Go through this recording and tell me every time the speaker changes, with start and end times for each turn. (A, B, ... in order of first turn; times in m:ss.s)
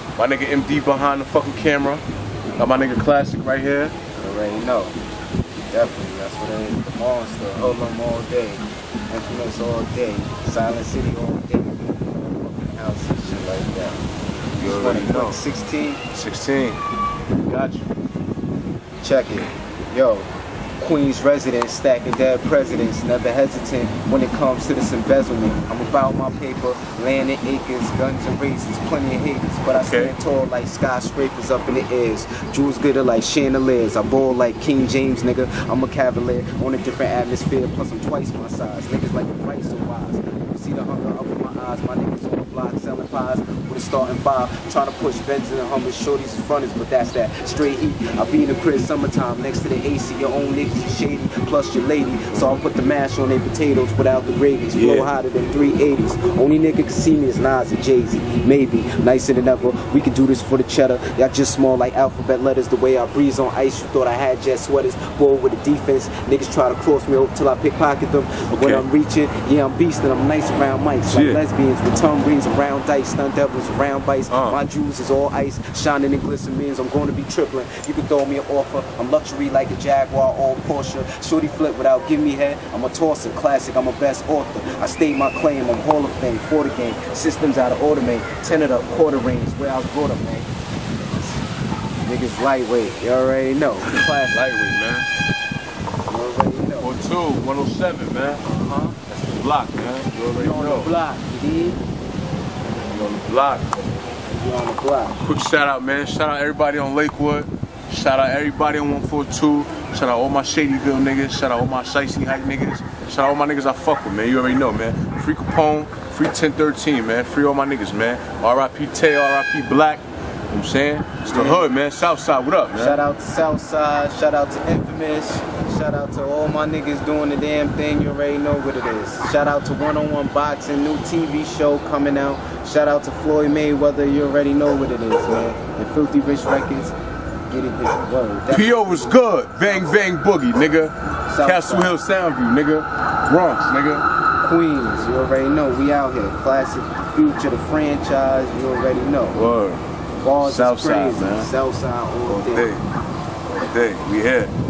0:00.2-0:02.0 A
0:02.6-0:04.0 A
0:04.2-0:05.0 B
0:05.7-0:14.1 B
0:14.5-0:15.4 A
0:14.6-0:16.0 B
0:16.1-0:16.8 A
0:17.4-0:17.9 A
0:19.0-0:20.3 B
0:20.8-1:30.5 B
0:29.8-0:30.2 A
0:52.3-0:52.6 A
0:54.8-0:55.1 A
1:08.5-1:08.8 A
1:11.1-1:11.4 A
1:14.3-1:14.6 A
1:31.1-1:31.4 B
1:32.0-1:34.4 B
1:34.3-1:35.1 A
1:36.1-1:36.9 B
1:36.8-1:38.4 A
1:38.4-1:39.2 B
1:39.3-1:40.9 A
1:40.4-1:41.8 B
1:42.9-1:43.7 A
1:44.3-1:45.2 B
1:45.2-2:03.0 A
2:01.3-2:01.7 B
2:02.8-2:17.0 B
2:17.5-2:19.2 B
2:18.5-2:24.1 A
2:21.3-2:22.0 B
2:24.4-2:29.4 B
2:29.3-2:29.8 A
2:30.2-2:32.7 B
2:30.4-2:31.5 A
2:32.3-2:32.8 A
2:33.5-2:34.5 A